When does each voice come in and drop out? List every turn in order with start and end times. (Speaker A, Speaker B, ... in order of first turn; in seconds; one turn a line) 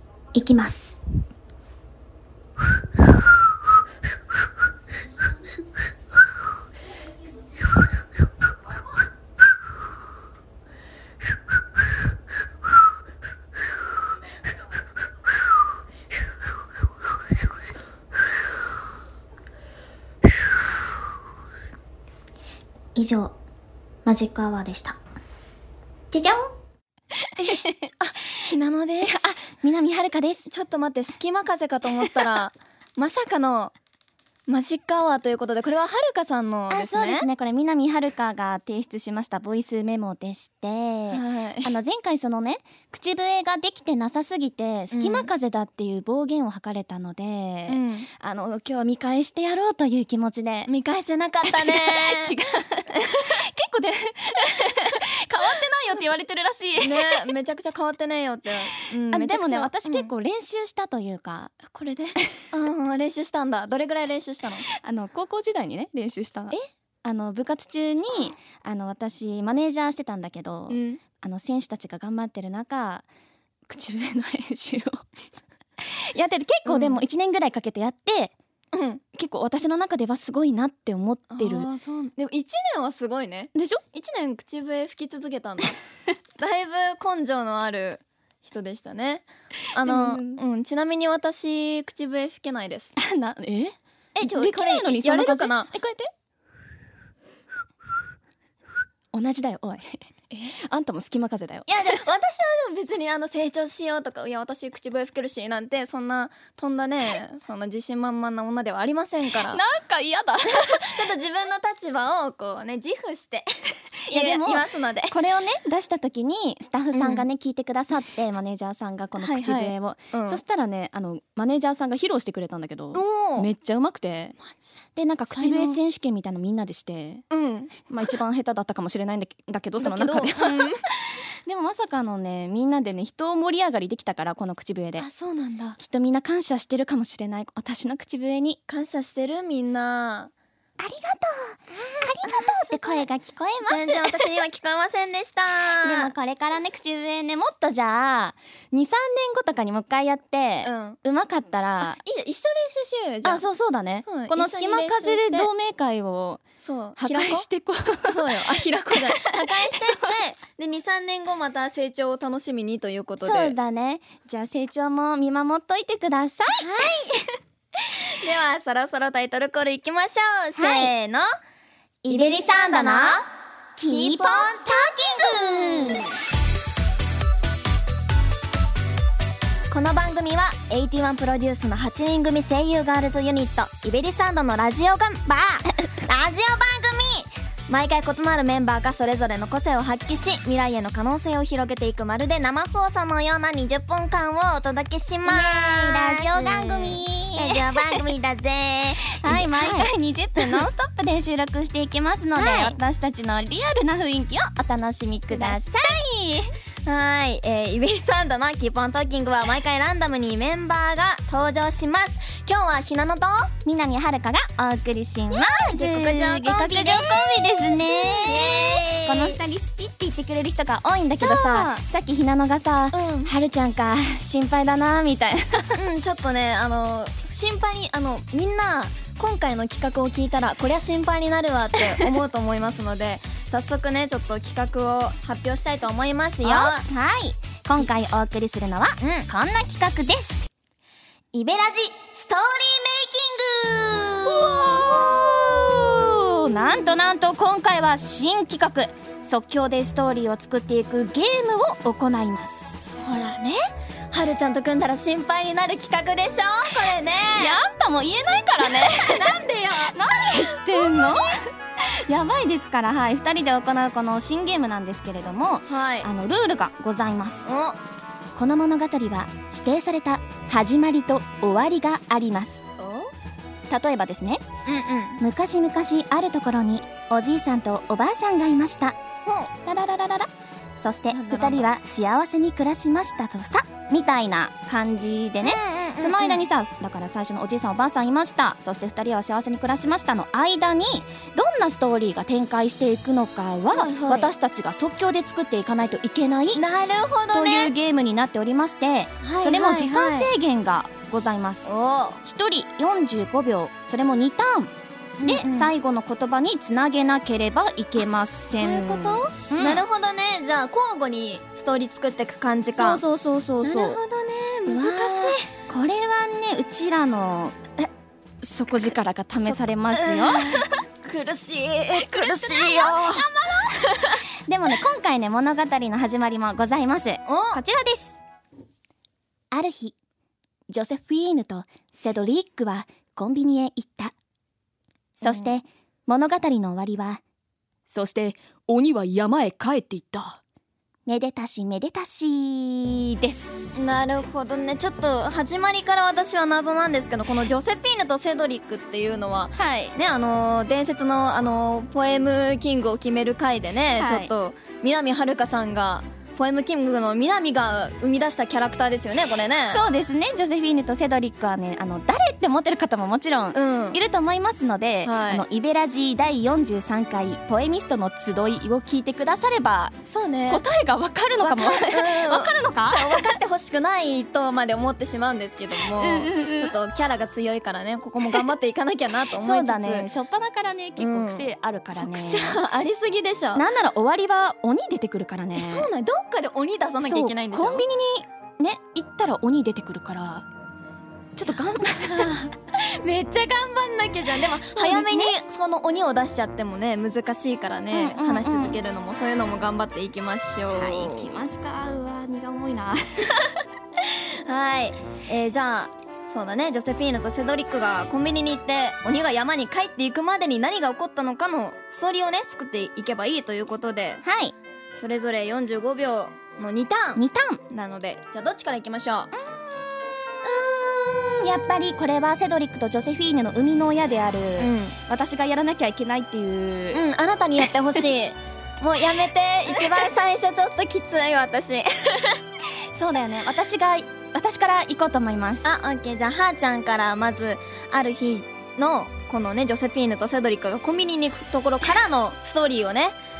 Speaker A: 0.3-1.0
Speaker A: 22.9-23.3
Speaker A: 24.0-25.0
Speaker A: 26.1-26.5
Speaker A: 27.4-27.8
Speaker B: 27.4-29.3
Speaker A: 29.0-30.5
Speaker B: 30.5-33.7
Speaker A: 31.9-32.3
Speaker B: 34.5-37.3
Speaker A: 36.7-50.7
Speaker B: 41.1-41.7
Speaker B: 44.9-45.3
Speaker B: 47.7-48.1
Speaker B: 50.6-52.3
Speaker A: 51.4-57.3
Speaker B: 56.8-60.1
Speaker A: 59.0-61.6
Speaker B: 61.6-64.7
Speaker A: 64.8-73.0
Speaker B: 70.7-71.0
Speaker A: 73.7-75.0
Speaker A: 75.8-78.3
Speaker B: 76.7-77.0
Speaker B: 78.7-79.0
Speaker A: 79.1-81.7
Speaker B: 81.3-85.8
Speaker A: 83.5-83.8
Speaker B: 86.4-92.9
Speaker A: 89.8-90.4
Speaker A: 93.0-96.1
Speaker B: 94.2-95.7
Speaker A: 99.1-102.0
Speaker B: 101.7-109.6
Speaker A: 109.3-111.1
Speaker B: 110.9-113.5
Speaker A: 114.1-124.3
Speaker B: 114.1-115.2
Speaker B: 116.9-117.2
Speaker B: 119.2-120.4
Speaker B: 122.9-123.5
Speaker B: 124.4-125.8
Speaker A: 125.0-127.2
Speaker B: 127.3-127.8
Speaker A: 127.9-130.7
Speaker B: 129.8-130.8
Speaker A: 131.4-135.1
Speaker B: 135.0-135.8
Speaker A: 135.8-138.6
Speaker B: 138.7-140.3
Speaker A: 140.8-144.3
Speaker B: 142.2-143.1
Speaker B: 143.7-146.1
Speaker A: 145.8-152.0
Speaker B: 150.6-151.0
Speaker B: 151.8-153.4
Speaker A: 153.2-156.4
Speaker B: 154.0-155.5
Speaker B: 156.6-157.5
Speaker A: 157.0-160.1
Speaker B: 158.1-163.5
Speaker A: 163.2-166.7
Speaker B: 166.5-167.3
Speaker B: 168.1-171.2
Speaker A: 170.6-170.9
Speaker A: 172.0-173.2
Speaker B: 172.1-173.3
Speaker A: 173.8-176.1
Speaker B: 173.8-176.1
Speaker B: 179.7-200.7
Speaker A: 195.2-198.0
Speaker A: 199.2-206.1
Speaker B: 202.3-202.8
Speaker B: 205.3-213.5
Speaker A: 213.6-225.8
Speaker B: 215.3-219.4
Speaker B: 221.2-221.8
Speaker B: 222.9-223.3
Speaker B: 225.7-236.9
Speaker A: 236.4-240.4
Speaker B: 239.0-239.3
Speaker B: 241.3-245.8
Speaker A: 244.3-252.8
Speaker B: 252.8-253.6
Speaker B: 254.1-257.6
Speaker A: 257.3-267.5
Speaker B: 258.6-261.2
Speaker B: 265.7-266.1
Speaker B: 267.4-267.8
Speaker A: 268.4-272.7
Speaker B: 272.8-273.1
Speaker A: 273.7-274.4
Speaker B: 274.6-275.2
Speaker A: 275.2-279.0
Speaker B: 279.2-279.5
Speaker A: 279.6-296.6
Speaker B: 281.1-281.7
Speaker B: 285.4-286.4
Speaker B: 293.7-294.3
Speaker B: 296.5-297.7
Speaker A: 297.3-301.7
Speaker B: 299.2-300.3
Speaker B: 301.6-302.2
Speaker A: 302.2-309.8
Speaker B: 305.2-305.7
Speaker B: 308.5-313.0
Speaker A: 312.7-314.0
Speaker B: 313.6-315.5
Speaker A: 314.6-317.6
Speaker A: 318.4-320.7
Speaker B: 319.4-323.2
Speaker A: 321.9-328.1
Speaker B: 327.2-327.6
Speaker A: 329.5-329.9
Speaker A: 330.7-334.1
Speaker A: 335.2-337.2
Speaker B: 335.2-335.5
Speaker A: 337.9-340.4
Speaker A: 341.1-343.9
Speaker B: 343.7-359.8
Speaker A: 349.6-349.9
Speaker A: 354.0-354.3
Speaker A: 359.7-369.9
Speaker B: 363.5-364.0
Speaker B: 365.0-365.4
Speaker B: 370.1-370.6
Speaker A: 370.5-373.4
Speaker B: 371.4-380.1
Speaker A: 375.8-376.7
Speaker A: 378.2-378.5
Speaker A: 379.3-382.6
Speaker B: 381.0-383.6
Speaker A: 383.5-385.9
Speaker B: 385.5-387.8
Speaker A: 387.0-390.4
Speaker A: 391.4-392.5
Speaker B: 391.8-401.3
Speaker A: 394.7-395.3
Speaker A: 397.9-398.8
Speaker A: 400.7-403.5
Speaker B: 404.4-414.2
Speaker A: 414.2-414.5
Speaker B: 414.9-419.3
Speaker A: 417.1-417.6
Speaker A: 419.4-427.0
Speaker B: 424.6-425.0
Speaker B: 426.9-432.4
Speaker A: 432.9-435.8
Speaker B: 435.6-443.2